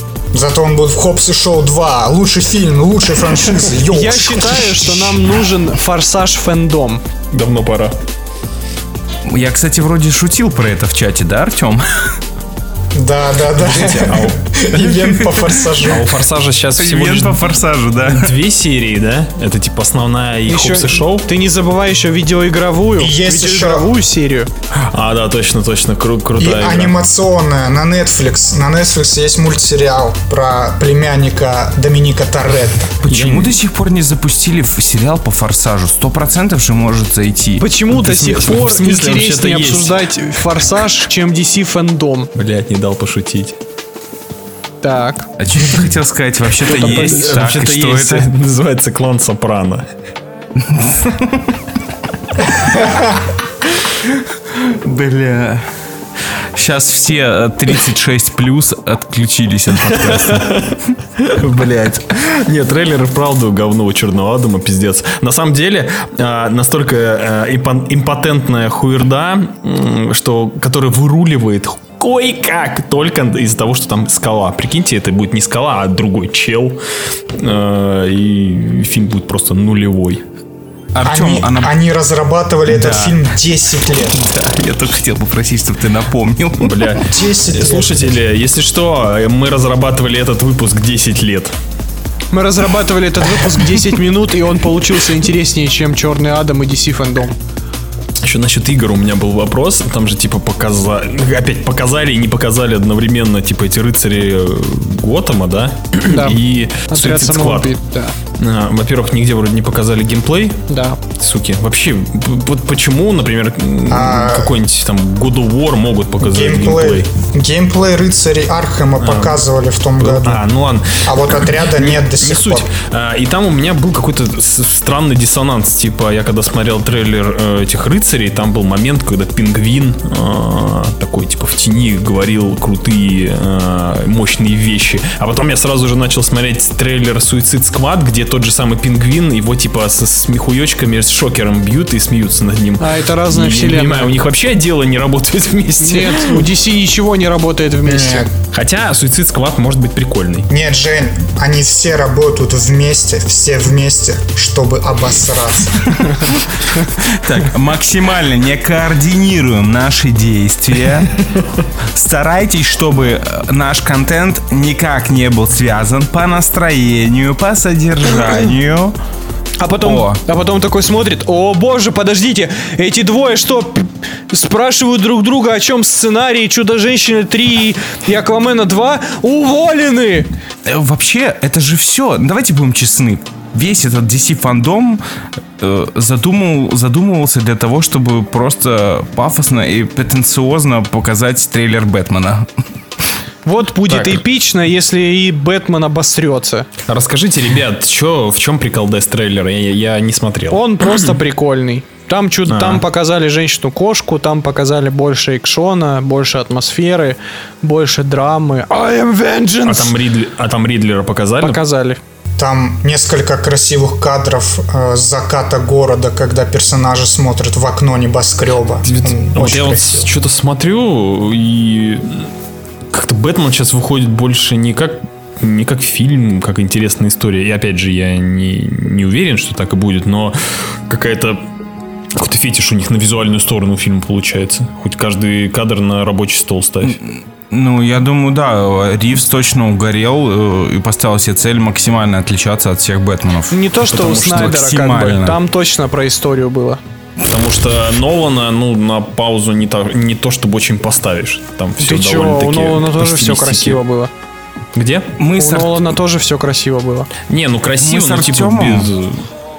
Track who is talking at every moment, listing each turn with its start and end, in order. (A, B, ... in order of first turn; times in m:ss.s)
0:00.3-0:05.3 A
0:03.9-0:07.0 B
0:07.3-0:07.9 C
0:09.3-0:12.2 D
0:12.9-0:16.1 A
0:13.6-0:15.0 C
0:15.8-0:17.4 C
0:16.8-0:18.3 D
0:18.0-0:21.3 C
0:20.5-0:24.5 B
0:23.0-0:23.9 A
0:24.7-0:27.0 C
0:26.4-0:33.0 A
0:33.0-0:37.6 D
0:33.1-0:33.5 C
0:37.6-0:42.3 B
0:37.9-0:40.0 C
0:42.3-0:43.6 C
0:44.8-0:45.3 B
0:45.4-0:48.3 D
0:46.6-0:47.3 B
0:46.7-0:49.9 C
0:50.6-0:51.5 D
0:54.5-0:55.6 D
0:56.5-1:00.6 D
1:00.1-1:16.8 C
1:17.3-1:20.2 C
1:20.9-1:21.7 D
1:21.0-1:24.2 A
1:22.7-1:23.2 D
1:24.1-1:26.8 D
1:26.6-1:31.5 C
1:27.1-1:28.2 A
1:32.3-1:37.3 B
1:38.2-1:47.7 C
1:46.1-1:48.2 B
1:48.4-1:50.6 C
1:50.7-1:51.0 B
1:51.1-1:57.1 C
1:53.9-1:54.6 A
1:56.2-2:02.7 A
1:59.0-1:59.4 C
2:00.0-2:26.4 C
2:22.8-2:24.1 B
2:25.8-2:28.3 B
2:27.8-2:28.3 A
2:28.5-2:30.5 C
2:30.5-2:36.0 A
2:37.1-2:41.2 D
2:41.9-2:48.9 D
2:49.6-3:00.3 B
2:49.8-2:50.2 D
3:00.6-3:05.0 D
3:05.6-3:12.5 D
3:13.4-3:16.7 B
3:13.9-3:14.2 C
3:16.9-3:21.1 C
3:20.5-3:29.9 B
3:22.5-3:22.8 C
3:29.6-3:31.6 C
3:31.4-3:32.0 B
3:32.4-3:40.1 A
3:38.8-3:42.3 C
3:42.9-3:51.5 C
3:52.1-3:57.0 C
3:56.9-4:05.4 D
4:03.5-4:06.8 B
4:03.9-4:04.5 C
4:07.3-4:13.8 C
4:11.8-4:14.1 B
4:14.7-4:15.1 C
4:15.2-4:15.9 D
4:15.4-4:17.1 B
4:17.3-4:19.2 C
4:17.8-4:18.9 D